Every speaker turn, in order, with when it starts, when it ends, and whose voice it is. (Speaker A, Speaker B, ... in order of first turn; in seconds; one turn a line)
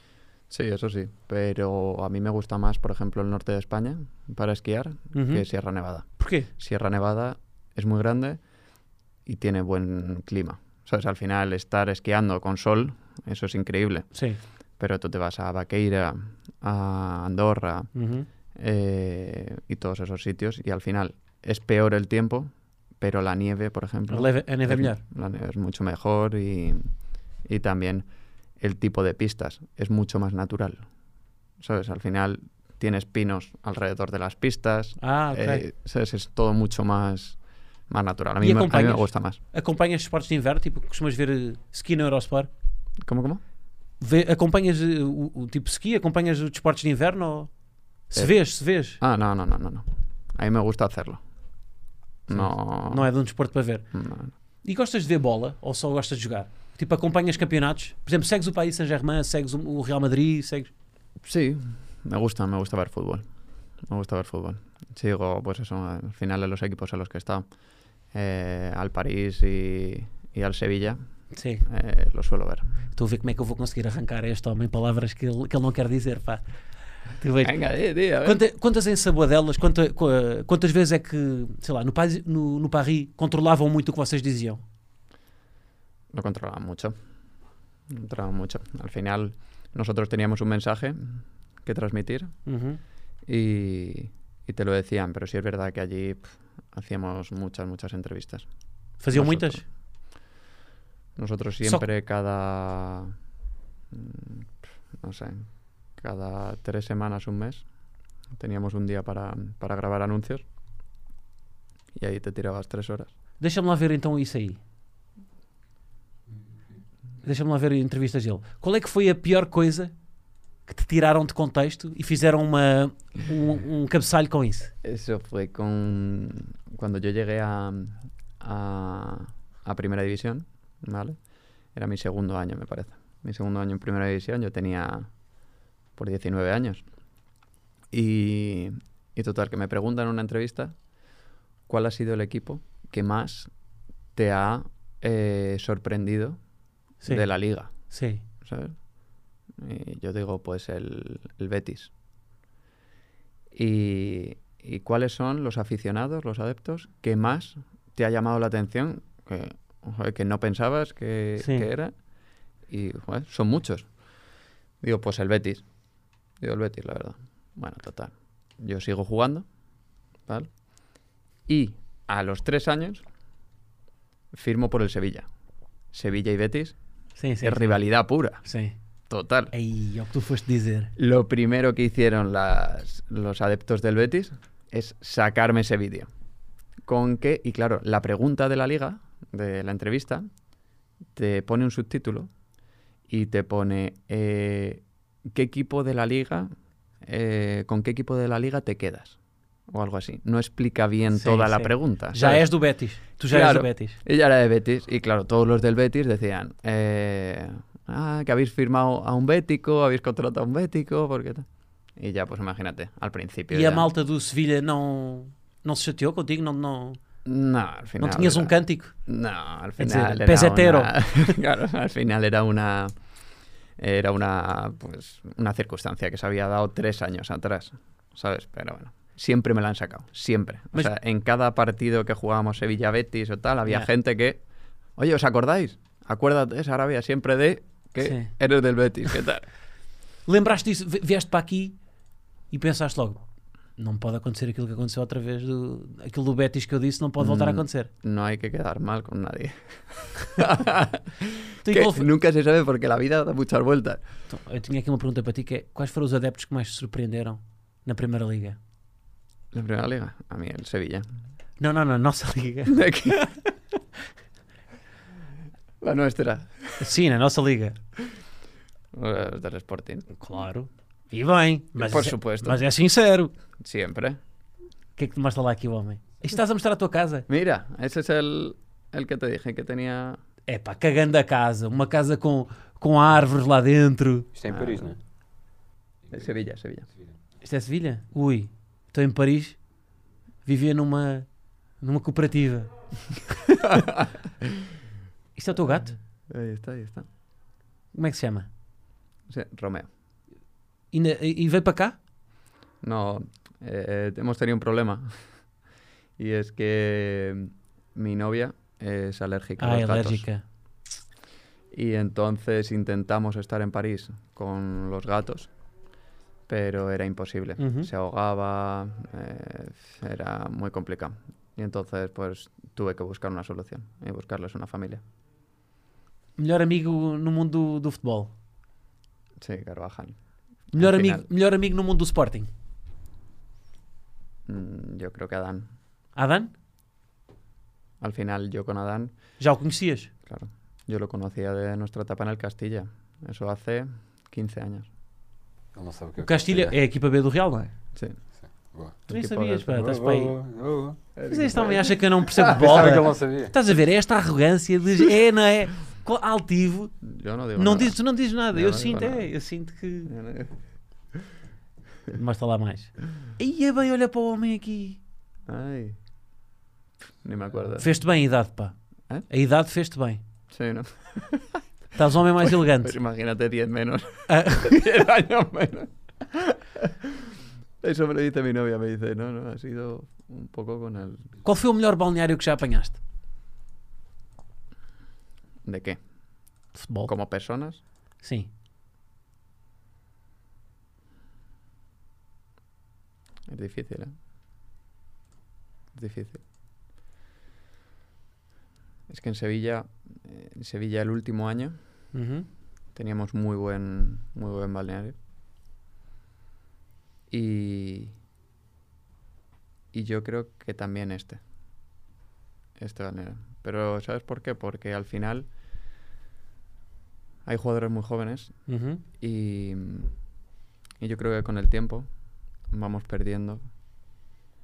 Speaker A: 0.5-8.4
Speaker B: 5.1-5.4
Speaker B: 6.2-6.5
Speaker A: 9.2-14.1
Speaker B: 14.1-14.4
Speaker A: 14.8-17.9
Speaker B: 17.9-18.3
Speaker A: 18.6-26.9
Speaker B: 24.1-25.0
Speaker A: 27.4-28.1
Speaker A: 28.6-30.8
Speaker A: 31.6-37.4
Speaker B: 35.0-35.6
Speaker A: 37.9-39.4
Speaker B: 38.4-42.5
Speaker A: 43.0-43.4
Speaker B: 44.0-47.5
Speaker B: 48.1-49.0
Speaker A: 49.0-51.2
Speaker A: 52.3-53.1
Speaker B: 52.3-53.9
Speaker A: 53.9-54.3
Speaker B: 54.6-60.7
Speaker A: 61.2-63.2
Speaker A: 63.8-67.4
Speaker A: 68.1-71.0
Speaker B: 71.3-71.6
Speaker A: 71.6-72.7
Speaker B: 72.9-76.4
Speaker B: 77.2-77.6
Speaker A: 77.4-78.4
Speaker B: 78.2-84.6
Speaker A: 86.1-86.9
Speaker A: 87.9-92.3
Speaker B: 92.5-92.8
Speaker A: 93.2-98.5
Speaker B: 99.0-99.6
Speaker A: 99.1-99.6
Speaker A: 101.2-103.1
Speaker A: 103.9-107.6
Speaker A: 108.3-110.4
Speaker A: 112.0-113.1
Speaker B: 113.4-114.6
Speaker B: 117.2-119.9
Speaker B: 120.7-124.7
Speaker A: 124.8-131.2
Speaker A: 131.7-135.1
Speaker A: 135.9-136.8
Speaker A: 137.9-140.8
Speaker A: 141.7-143.5
Speaker A: 144.2-146.4
Speaker A: 147.0-147.7
Speaker B: 147.9-148.2
Speaker A: 148.4-148.8
Speaker A: 149.6-151.9
Speaker A: 153.5-161.9
Speaker B: 161.4-161.7
Speaker A: 162.7-163.9
Speaker A: 164.8-165.6
Speaker A: 166.4-169.4
Speaker A: 171.5-173.0
Speaker A: 174.3-175.3
Speaker A: 175.9-176.8
Speaker B: 177.2-177.8
Speaker A: 177.4-178.4
Speaker B: 178.4-178.8
Speaker A: 179.1-179.5
Speaker B: 179.5-180.9
Speaker A: 181.0-186.1
Speaker A: 186.8-190.2
Speaker A: 191.1-192.3
Speaker A: 193.1-196.5
Speaker A: 197.0-199.2
Speaker A: 199.7-202.5
Speaker B: 201.1-204.0
Speaker A: 203.3-213.9
Speaker B: 213.5-217.0
Speaker A: 217.2-222.9
Speaker B: 218.0-218.9
Speaker B: 219.8-221.4
Speaker A: 223.8-234.4
Speaker A: 235.0-239.5
Speaker B: 238.0-238.3
Speaker B: 240.2-241.8
Speaker B: 242.5-243.2
Speaker B: 243.8-247.9
Speaker A: 247.2-254.0
Speaker B: 251.6-252.1
Speaker B: 254.3-258.6
Speaker A: 259.5-261.1
Speaker B: 261.6-262.8
Speaker A: 262.7-263.5
Speaker A: 265.8-266.9
Speaker B: 266.8-267.8
Speaker A: 268.9-270.1
Speaker B: 270.1-273.3
Speaker A: 271.8-272.6
Speaker A: 273.6-274.2
Speaker B: 275.0-277.3
Speaker A: 277.3-280.2
Speaker B: 280.5-284.3
Speaker C: 284.3-285.0
Speaker A: 284.5-284.9
Speaker A: 286.1-286.9
Speaker B: 287.4-289.6
Speaker B: 290.4-291.3
Speaker B: 291.8-292.7
Speaker A: 293.5-294.7
Speaker B: 295.4-295.9
Speaker A: 296.3-297.1
Speaker B: 297.9-298.5
Speaker A: 299.3-299.9
Speaker B: 300.9-302.0
Speaker A: 302.8-305.2
Speaker A: 306.2-310.2
Speaker B: 309.6-310.4
Speaker A: 311.7-315.5
Speaker A: 316.5-325.0
Speaker B: 317.6-317.9
Speaker B: 326.4-328.3
Speaker A: 329.4-330.1
Speaker B: 330.7-332.5
Speaker A: 330.7-331.2
Speaker A: 334.5-335.7
Speaker B: 336.1-336.5
Speaker A: 338.0-339.1
Speaker B: 339.4-340.1
Speaker A: 340.2-344.9
Speaker C: 345.7-346.7
Speaker B: 346.2-347.7
Speaker C: 348.5-349.0
Speaker A: 349.1-349.8
Speaker B: 349.1-350.3
Speaker C: 349.7-351.0
Speaker A: 351.1-353.0
Speaker B: 351.3-356.9
Speaker C: 352.4-353.5
Speaker A: 357.0-358.0
Speaker B: 357.6-360.1
Speaker A: 358.5-359.3
Speaker A: 360.1-360.5
Speaker B: 362.1-365.0
Speaker A: 365.5-366.0
Speaker A: 367.2-367.9
Speaker B: 367.8-368.7
Speaker B: 369.3-370.2
Speaker A: 370.5-371.6
Speaker B: 371.9-372.9
Speaker A: 372.4-381.2
Speaker B: 374.3-374.7
Speaker B: 381.4-383.0
Speaker A: 385.6-386.0
Speaker B: 386.7-387.1
Speaker A: 387.1-387.8
Speaker B: 388.2-388.5
Speaker A: 393.5-394.1
Speaker A: 395.9-396.4
Speaker A: 399.1-401.8
Speaker B: 402.1-402.5
Speaker A: 402.9-405.1
Speaker A: 407.3-408.1
Speaker A: 409.9-411.4
Speaker A: 412.8-415.5
Speaker A: 417.4-418.5
Speaker B: 418.7-419.0
Speaker A: 419.2-420.1
Speaker A: 421.0-422.1
Speaker A: 422.7-423.6